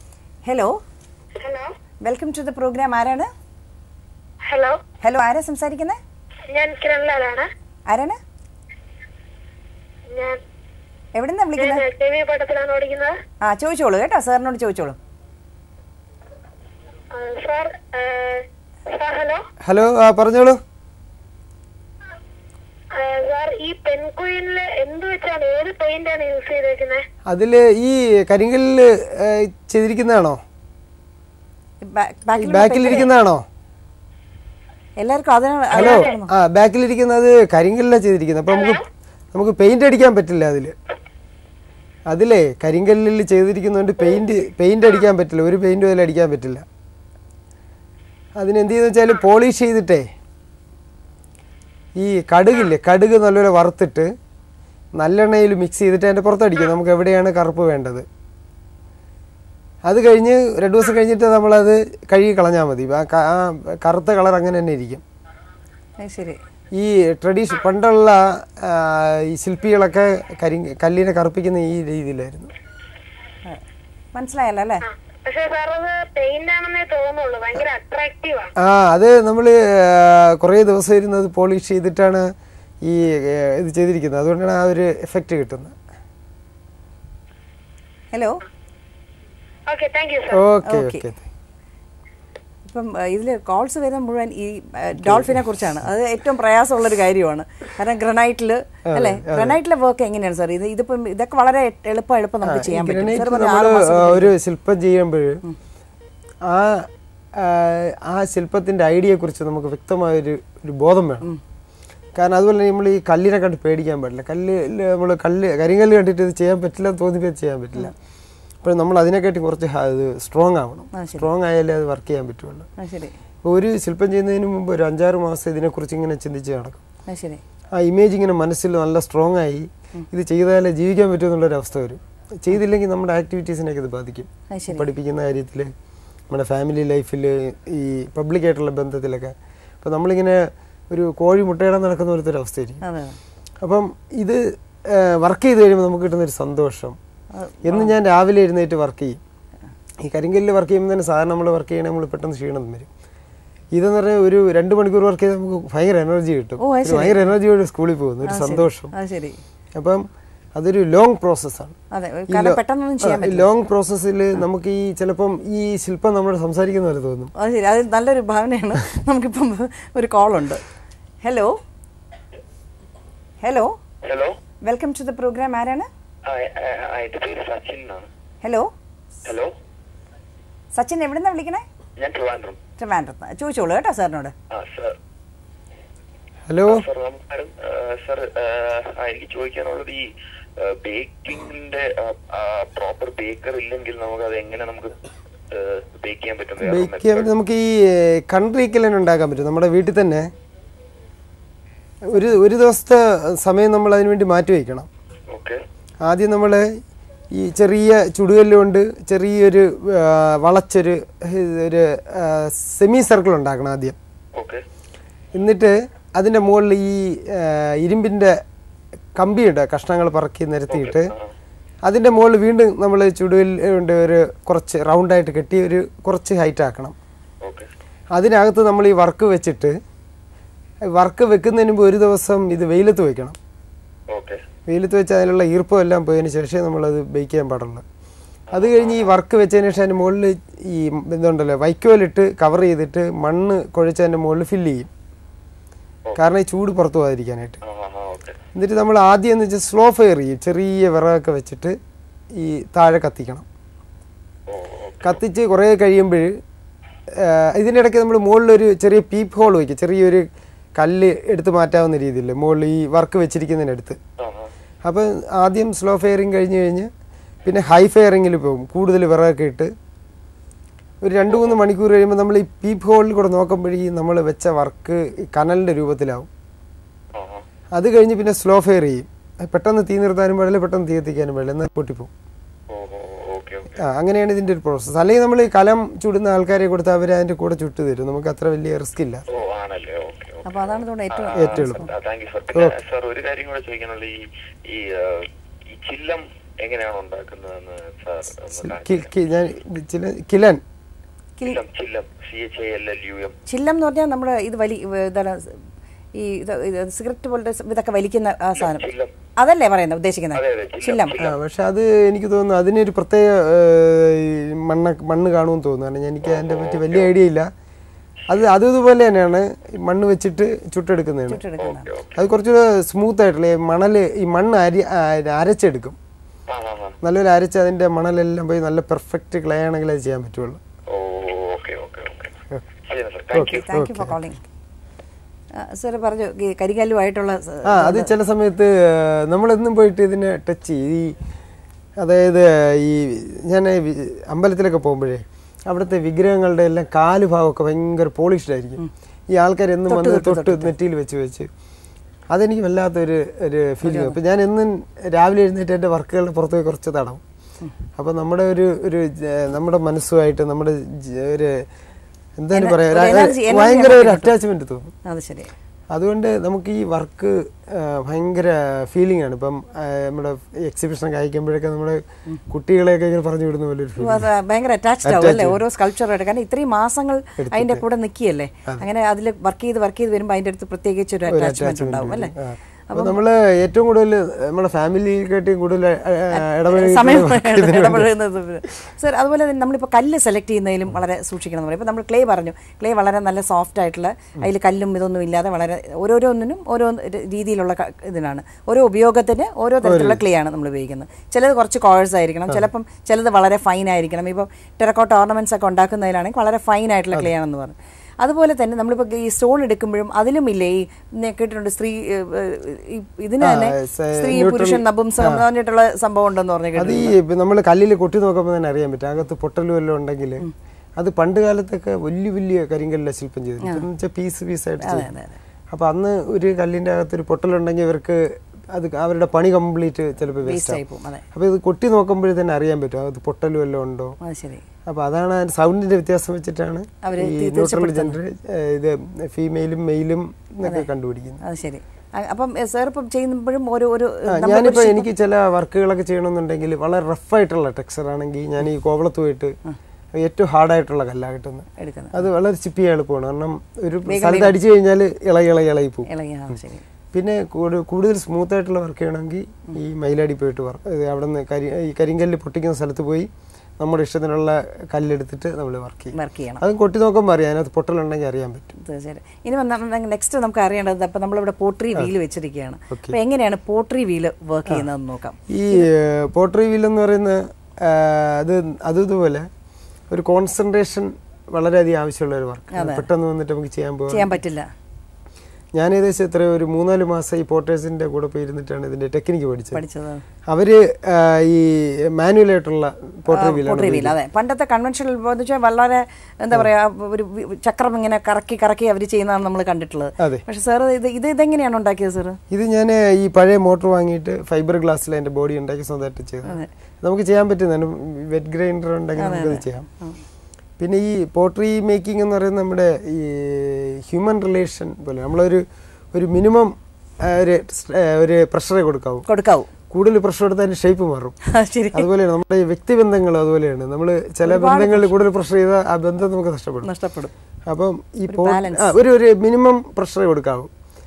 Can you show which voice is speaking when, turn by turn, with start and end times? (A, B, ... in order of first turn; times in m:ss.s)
0:00.4-0:00.8 A
0:01.4-0:01.7 B
0:02.0-0:03.3 A
0:04.4-0:04.8 B
0:05.0-0:06.0 A
0:06.5-0:07.5 B
0:07.9-0:08.2 A
0:10.1-0:10.4 B
0:11.2-0:11.8 A
0:11.6-0:13.2 B
0:13.4-0:15.0 A
0:17.1-0:19.4 B
0:19.6-0:20.6 C
0:22.9-0:27.0 B
0:27.3-0:30.4 C
0:31.8-0:33.1 A
0:32.4-0:33.4 C
0:35.0-0:36.3 A
0:35.7-0:36.1 B
0:35.7-0:40.7 C
0:38.5-0:38.8 B
0:42.1-0:46.6 C
0:48.4-0:50.1 C
0:52.0-0:54.1 C
0:55.0-0:58.0 C
0:59.8-1:05.0 C
1:06.0-1:06.4 A
1:06.7-1:12.5 C
1:14.1-1:14.8 A
1:14.8-1:18.5 B
1:18.6-1:22.2 C
1:22.8-1:25.7 C
1:28.1-1:28.4 A
1:29.7-1:30.4 B
1:30.3-1:31.2 C
1:30.6-1:31.0 A
1:32.6-1:44.3 A
1:35.0-1:35.5 C
1:38.9-1:39.6 C
1:42.4-1:45.4 C
1:46.4-1:51.3 C
1:52.2-1:57.9 C
1:58.6-2:02.7 C
2:00.9-2:01.3 A
2:02.8-2:03.1 A
2:03.4-2:06.8 C
2:07.1-2:07.4 A
2:07.7-2:15.7 C
2:14.5-2:14.9 A
2:16.3-2:22.8 C
2:22.8-2:23.2 A
2:23.6-2:27.0 C
2:27.4-2:27.9 A
2:27.6-2:29.2 C
2:30.0-2:32.9 C
2:33.7-2:38.9 C
2:36.6-2:37.2 A
2:38.2-2:39.4 A
2:39.7-2:40.0 C
2:40.6-2:41.8 C
2:41.9-2:43.5 A
2:42.3-2:47.3 C
2:47.4-2:50.6 A
2:51.2-2:51.6 A
2:53.4-2:53.8 A
2:54.0-2:54.4 D
2:54.6-2:55.9 A
2:56.2-2:58.1 D
2:58.4-2:58.7 A
2:59.2-2:59.5 D
3:00.7-3:01.6 A
3:02.0-3:02.6 D
3:02.8-3:04.3 A
3:04.5-3:05.0 D
3:06.5-3:06.8 C
3:06.6-3:10.1 D
3:10.6-3:15.0 D
3:15.5-3:17.3 D
3:16.6-3:20.3 C
3:22.1-3:24.9 C
3:25.3-3:25.6 D
3:26.0-3:26.7 C
3:27.3-3:34.0 C
3:34.3-3:34.6 D
3:35.3-3:38.4 C
3:39.2-3:41.1 C
3:40.7-3:41.3 D
3:41.8-3:46.9 C
3:47.4-3:47.7 D
3:48.1-3:49.8 C
3:50.9-3:53.4 C
3:54.1-3:54.4 D
3:54.7-3:57.8 C
3:58.5-3:59.1 D
3:58.5-4:04.9 C
4:06.2-4:07.6 C
4:07.6-4:08.4 D
4:08.5-4:11.8 C
4:12.3-4:13.4 C
4:14.5-4:15.2 D
4:15.0-4:16.3 C
4:17.2-4:20.2 C
4:20.8-4:24.0 C
4:24.2-4:24.5 D
4:24.8-4:26.9 C
4:27.4-4:29.7 C
4:31.0-4:36.3 C
4:31.3-4:31.6 D
4:37.1-4:37.4 D
4:37.7-4:42.1 C
4:42.7-4:43.8 D
4:43.8-4:49.2 C
4:49.3-4:59.1 D
4:50.4-4:51.9 A
4:51.3-4:51.9 C
4:52.5-4:52.8 C
4:58.6-5:00.6 C
5:01.4-5:03.4 D
5:03.5-5:05.6 A
5:06.1-5:11.1 A
5:08.6-5:09.1 D
5:10.3-5:11.4 D
5:11.2-5:17.5 C
5:16.2-5:17.1 D
5:18.3-5:21.4 C
5:21.3-5:21.9 A
5:21.6-5:22.1 D
5:22.2-5:26.0 C
5:26.5-5:26.9 D
5:27.0-5:30.6 C
5:30.9-5:32.3 D
5:32.8-5:33.6 D
5:33.3-5:34.2 C
5:33.4-5:34.4 A
5:35.6-5:38.1 A
5:37.6-5:41.1 C
5:42.0-5:51.5 C
5:49.9-5:50.7 A
5:52.3-5:57.2 C
5:53.8-5:54.2 A
5:58.0-6:01.6 C
6:02.4-6:04.9 C
6:02.5-6:04.3 A
6:05.0-6:05.5 A
6:05.9-6:14.3 C
6:14.0-6:22.3 A
6:15.0-6:15.6 C
6:17.4-6:17.8 C
6:21.3-6:28.1 C
6:22.9-6:23.2 A
6:26.3-6:57.2 A
6:39.8-6:40.2 C
6:53.4-6:55.4 C
6:56.8-7:00.4 C
7:01.0-7:05.1 C
7:04.8-7:05.4 A
7:05.7-7:10.8 C
7:10.4-7:11.2 A
7:11.3-7:14.2 C
7:14.2-7:14.6 A
7:14.8-7:21.4 C
7:17.0-7:18.2 A
7:21.4-7:25.1 A
7:24.3-7:29.5 C
7:30.1-7:36.1 C
7:31.8-7:32.2 A
7:34.1-7:34.6 A
7:36.1-7:36.8 A
7:37.1-7:48.7 C
7:46.1-7:46.6 A
7:48.8-7:55.9 A
7:52.9-7:53.2 C
7:55.5-7:59.5 C
8:00.1-8:04.3 C
8:02.7-8:03.1 A
8:04.1-8:04.7 A
8:05.7-8:09.8 C
8:09.7-8:10.2 A
8:10.5-8:14.1 C
8:13.3-8:22.4 A
8:20.2-8:20.4 C
8:22.5-8:29.9 C
8:29.2-8:30.2 A
8:30.8-8:39.3 C
8:39.3-8:39.7 A
8:39.9-8:41.4 C
8:41.5-8:42.1 A
8:41.9-8:46.9 C
8:44.4-8:45.1 A
8:46.8-8:47.3 A
8:47.7-8:50.7 C
8:48.3-8:48.9 A